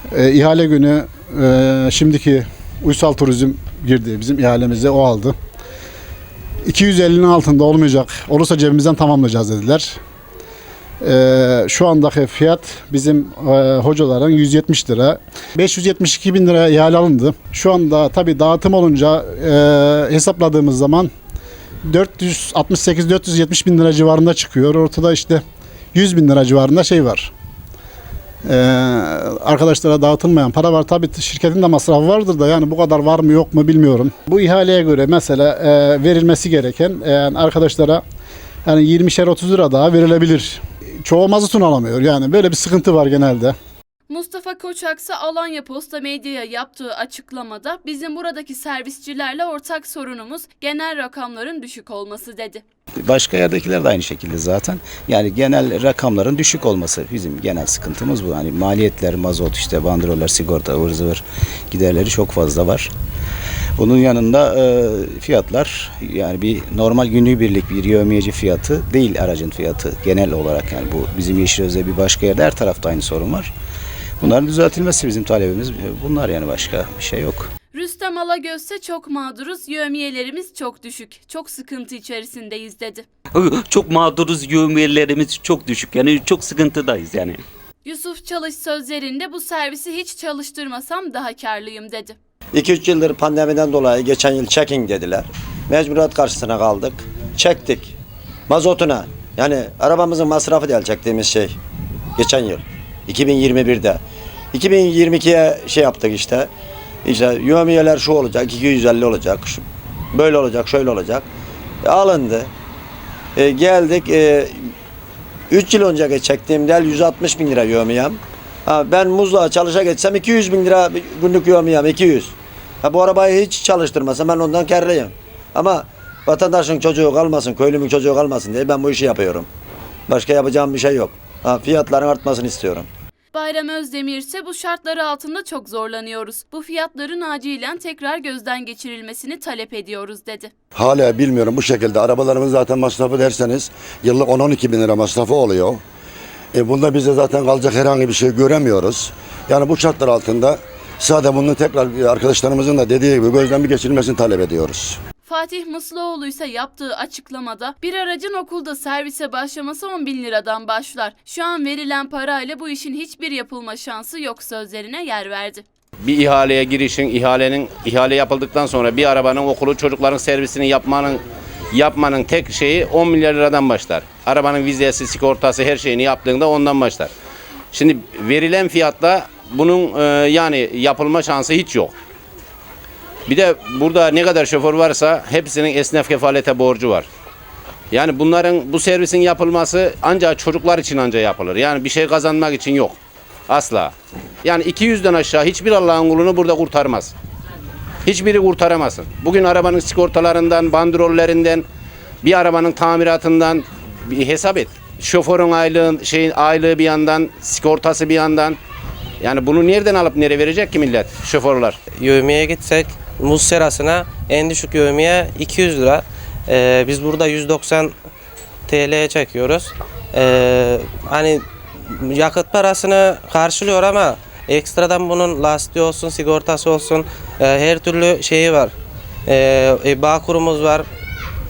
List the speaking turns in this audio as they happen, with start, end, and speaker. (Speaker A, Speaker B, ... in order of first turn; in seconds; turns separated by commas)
Speaker A: 0.1-5.4, Speaker A: 6.6-10.0, Speaker A: 11.0-21.1, Speaker A: 21.8-27.3, Speaker A: 28.4-38.0, Speaker A: 38.6-43.5, Speaker B: 44.1-52.6, Speaker C: 53.0-61.2, Speaker A: 55.8-56.0, Speaker A: 57.8-59.2, Speaker A: 59.9-61.2, Speaker A: 61.7-62.9, Speaker C: 61.7-62.9, Speaker A: 63.8-73.5, Speaker C: 63.8-73.3, Speaker A: 74.2-77.5, Speaker C: 74.3-77.2, Speaker B: 77.7-83.0, Speaker D: 83.4-87.4, Speaker B: 87.8-92.2, Speaker E: 92.5-97.9, Speaker E: 98.5-101.6, Speaker E: 102.2-106.5, Speaker E: 107.0-111.3, Speaker E: 111.8-112.5, Speaker E: 113.3-114.6, Speaker E: 115.5-129.5, Speaker E: 130.1-132.9, Speaker B: 133.3-140.5, Speaker F: 140.7-145.8, Speaker F: 146.5-155.0, Speaker B: 155.2-165.6, Speaker G: 166.0-171.2, Speaker G: 171.7-177.1, Speaker G: 177.7-181.9, Speaker G: 183.3-187.1, Speaker G: 187.9-193.0, Speaker G: 193.5-193.9, Speaker G: 194.4-197.1, Speaker G: 198.1-201.6, Speaker G: 202.2-208.6, Speaker G: 209.2-211.8, Speaker H: 211.9-217.9, Speaker H: 218.7-228.7, Speaker H: 229.3-230.8